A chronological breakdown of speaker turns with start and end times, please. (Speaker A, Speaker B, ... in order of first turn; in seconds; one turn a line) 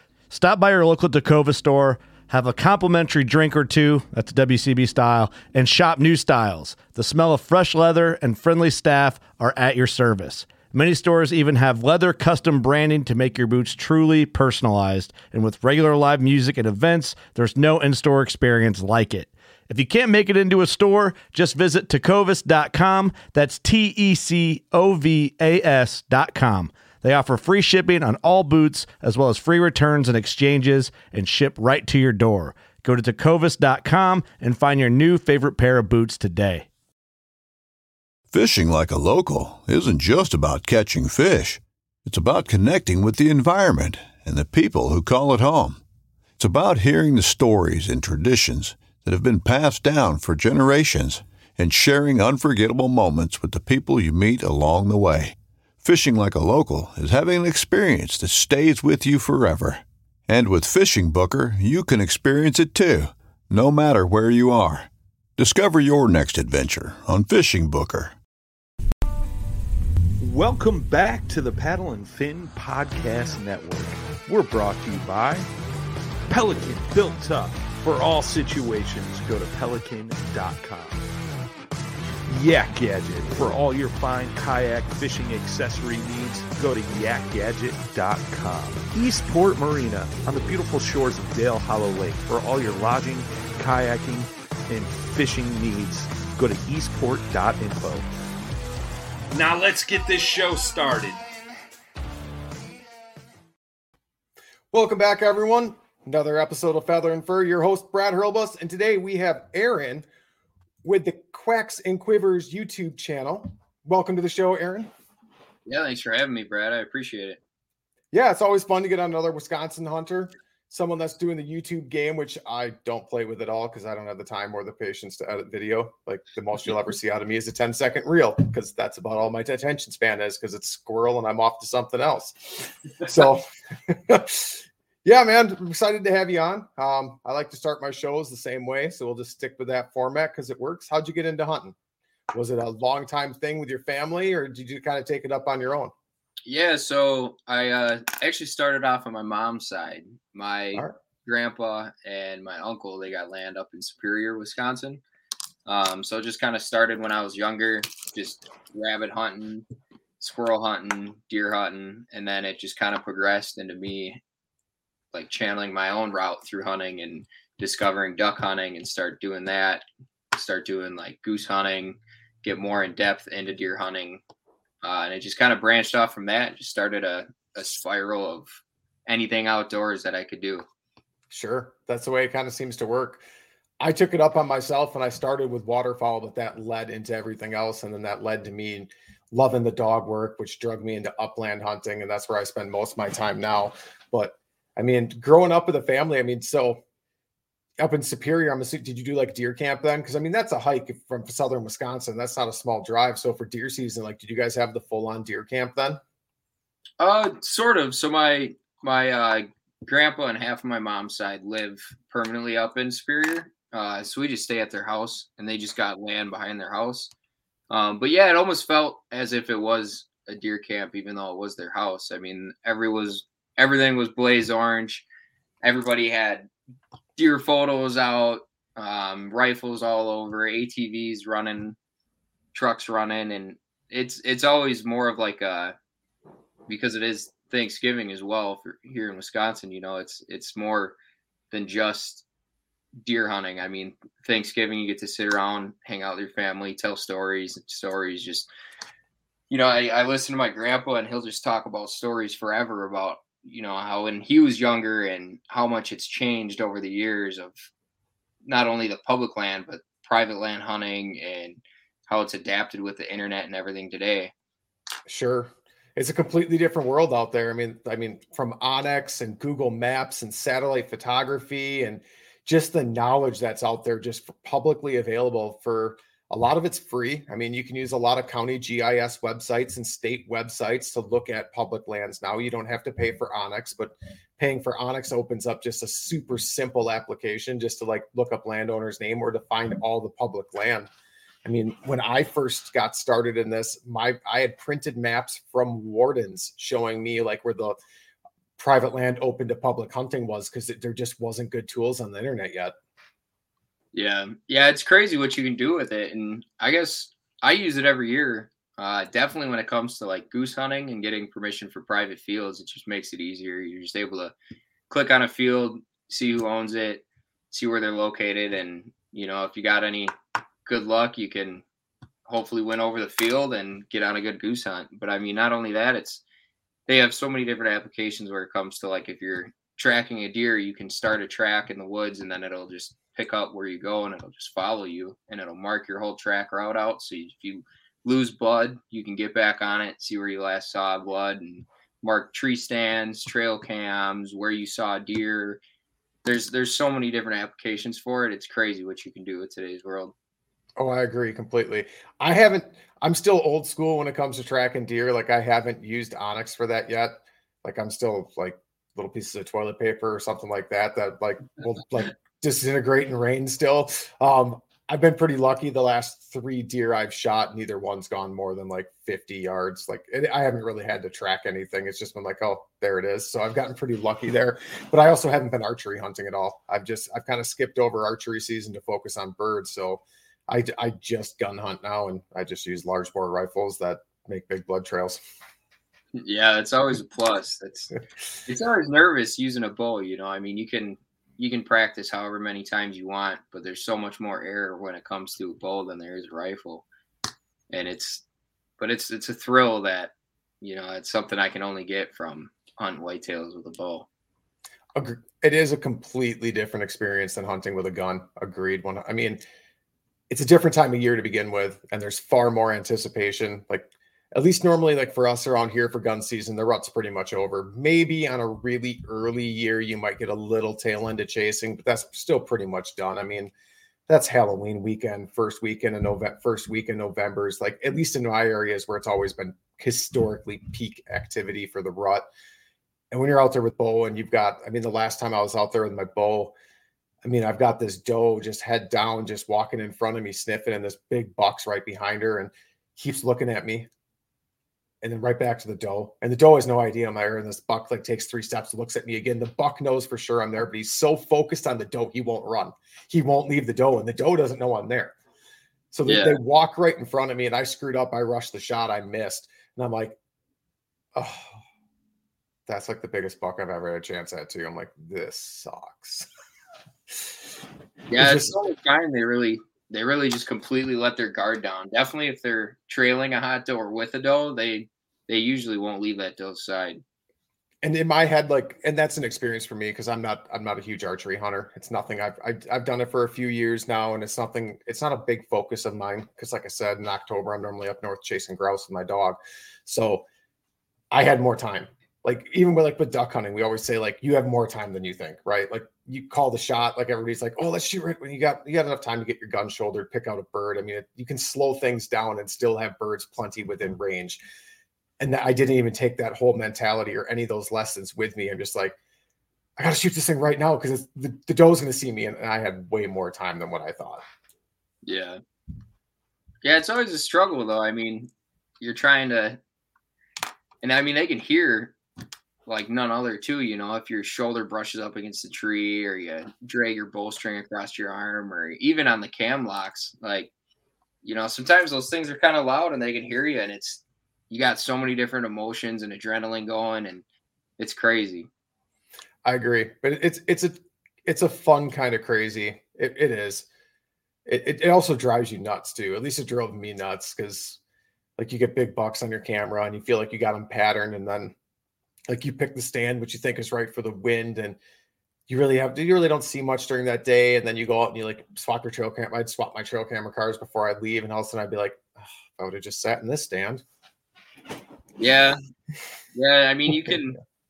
Speaker A: 0.3-36.6
Speaker B: 38.3-45.8
Speaker B: 46.4-68.1
Speaker C: 70.2-75.5
Speaker C: 76.3-81.0
Speaker C: 82.3-98.1
Speaker C: 99.3-101.1
Speaker D: 104.7-110.0
Speaker D: 110.8-114.9
Speaker E: 115.7-117.4
Speaker D: 118.1-141.8
Speaker D: 142.3-145.9
Speaker E: 146.4-155.0
Speaker E: 155.7-159.7
Speaker E: 160.2-164.2
Speaker E: 165.1-174.2
Speaker E: 174.8-178.6
Speaker E: 179.1-180.6
Speaker D: 181.3-183.2
Speaker D: 183.8-196.8
Speaker D: 197.8-206.0
Speaker E: 207.0-217.1
Speaker E: 217.7-225.1
Speaker E: 225.6-226.5
Speaker E: 227.2-231.8
Speaker E: 232.5-235.7
Speaker E: 236.7-241.0
Speaker E: 241.5-242.2
Speaker E: 243.0-248.5
Speaker E: 249.5-257.6
Speaker E: 258.4-264.3
Speaker D: 265.1-290.9
Speaker D: 291.4-297.8
Speaker D: 298.6-302.7
Speaker E: 303.9-314.3
Speaker E: 314.9-320.1
Speaker E: 320.6-321.6
Speaker E: 322.3-326.2
Speaker E: 326.9-345.6
Speaker E: 346.2-350.1
Speaker D: 350.8-385.2
Speaker E: 386.1-387.9
Speaker E: 388.5-396.8
Speaker E: 397.7-398.2
Speaker E: 398.8-404.1
Speaker D: 404.9-409.4
Speaker D: 410.3-423.5
Speaker D: 424.1-432.2
Speaker D: 433.1-436.5
Speaker D: 437.2-443.9
Speaker D: 445.0-455.1
Speaker D: 455.9-460.2
Speaker E: 456.1-456.4
Speaker D: 461.1-461.6
Speaker D: 462.7-466.3
Speaker E: 468.1-477.0
Speaker D: 468.1-468.6
Speaker D: 477.8-490.2
Speaker D: 491.1-504.4
Speaker D: 505.2-508.9
Speaker D: 509.8-514.2
Speaker E: 515.0-515.4
Speaker E: 516.6-518.3
Speaker E: 518.8-519.6
Speaker E: 520.8-522.0
Speaker E: 522.6-530.5
Speaker E: 531.2-537.2
Speaker E: 537.8-538.5
Speaker D: 539.4-543.6
Speaker D: 544.5-547.8
Speaker D: 548.4-551.5
Speaker D: 552.3-554.8
Speaker D: 555.5-563.8
Speaker E: 565.2-565.6
Speaker E: 566.3-567.4